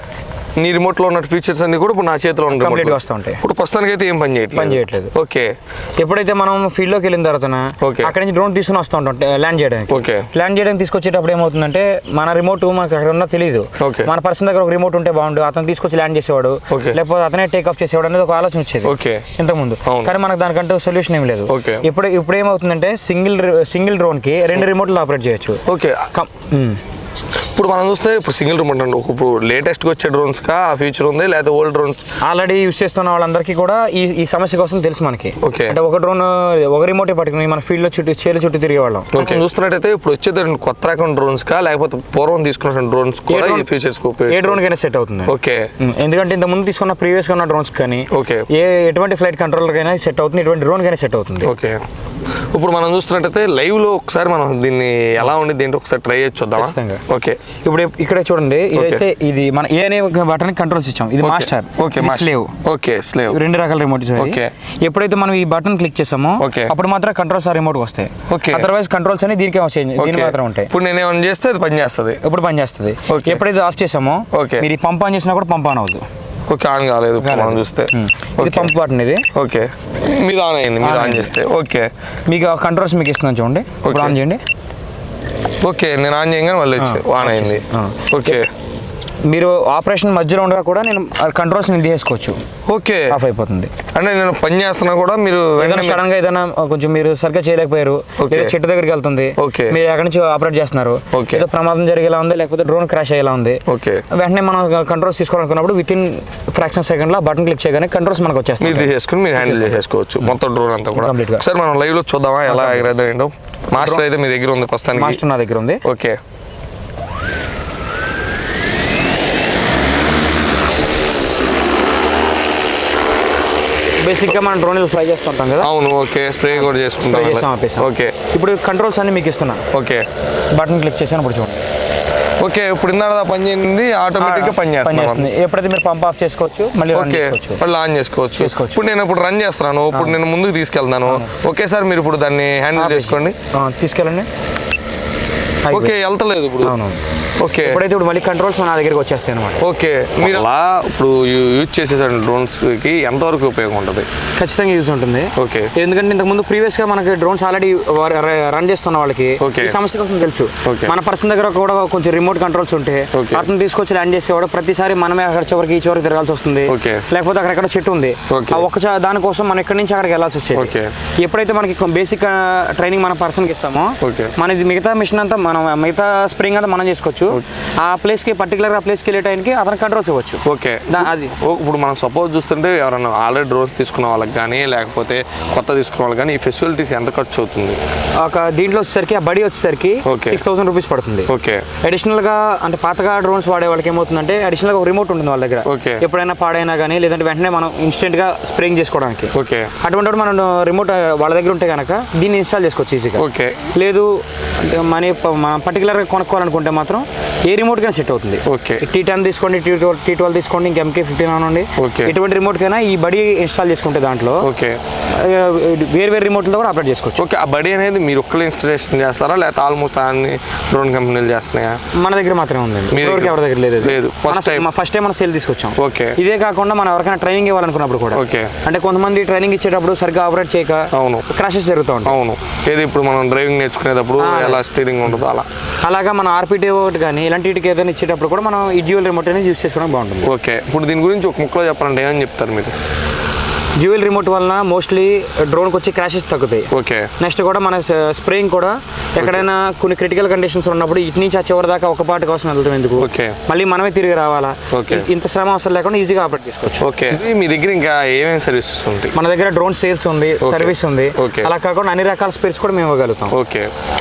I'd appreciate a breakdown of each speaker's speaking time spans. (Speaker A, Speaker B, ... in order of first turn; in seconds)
Speaker A: 0.6-5.5, 7.8-8.1, 9.9-10.3, 13.8-14.1, 16.7-17.0, 18.9-19.3, 19.9-20.1, 21.5-21.9, 25.7-26.1, 27.5-32.0, 35.4-35.8, 39.1-44.6, 45.3-45.7, 48.1-48.5, 51.4-51.8, 52.5-57.4, 58.7-59.0, 61.2-63.4, 64.2-64.5, 66.4-66.7, 68.3-68.7, 70.0-72.2, 73.1-73.4, 74.3-74.7, 76.5-78.7, 79.3-81.9, 83.8-84.2, 85.6-88.5, 92.7-93.2, 93.9-96.0, 98.2-98.5, 99.4-99.8, 101.1-101.5, 103.7-104.0, 108.6-115.2, 115.8-116.2, 125.6-128.2, 129.7-130.1, 132.4-135.3, 136.9-143.4, 145.7-146.8, 147.4-147.8, 149.6-154.1, 155.4-155.7, 159.4-159.8, 160.6-160.9, 163.1-163.5, 166.7-167.1, 168.3-168.7, 170.5-170.9, 174.0-174.3, 180.4-187.8, 190.1-190.4, 191.3-191.7, 195.7-196.0, 199.3-199.7, 203.2-203.7, 208.5-208.8, 211.8-212.1, 214.4-214.8, 217.2-221.8, 222.9-224.7, 225.8-226.2, 228.1-228.5, 230.9-231.3, 232.1-235.5, 240.2-242.7, 246.7-247.1, 249.2-249.4, 253.0-253.4, 254.7-255.1, 256.8-259.1, 260.4-261.5, 263.3-263.7
Speaker B: 2.5-3.4, 4.5-5.1, 6.0-26.8, 32.2-39.4, 43.3-43.7, 44.3-51.5, 56.6-57.0, 57.6-62.5, 63.3-70.7, 72.2-76.0, 77.2-79.3, 80.8-81.3, 82.3-84.4, 86.8-88.4, 89.3-92.4, 93.1-93.7, 95.6-110.3, 111.0-111.5, 112.5-113.0, 113.7-114.0, 114.9-115.8, 124.0-125.7, 126.5-129.6, 130.5-131.6, 134.2-137.6, 138.4-138.8, 139.9-140.2, 142.8-144.3, 145.6-146.0, 146.6-147.0, 147.6-149.6, 154.4-181.3, 188.2-191.3, 191.8-214.5, 215.1-217.2, 222.0-232.2, 234.2-234.6, 235.8-240.3, 243.8-257.0, 259.1-263.4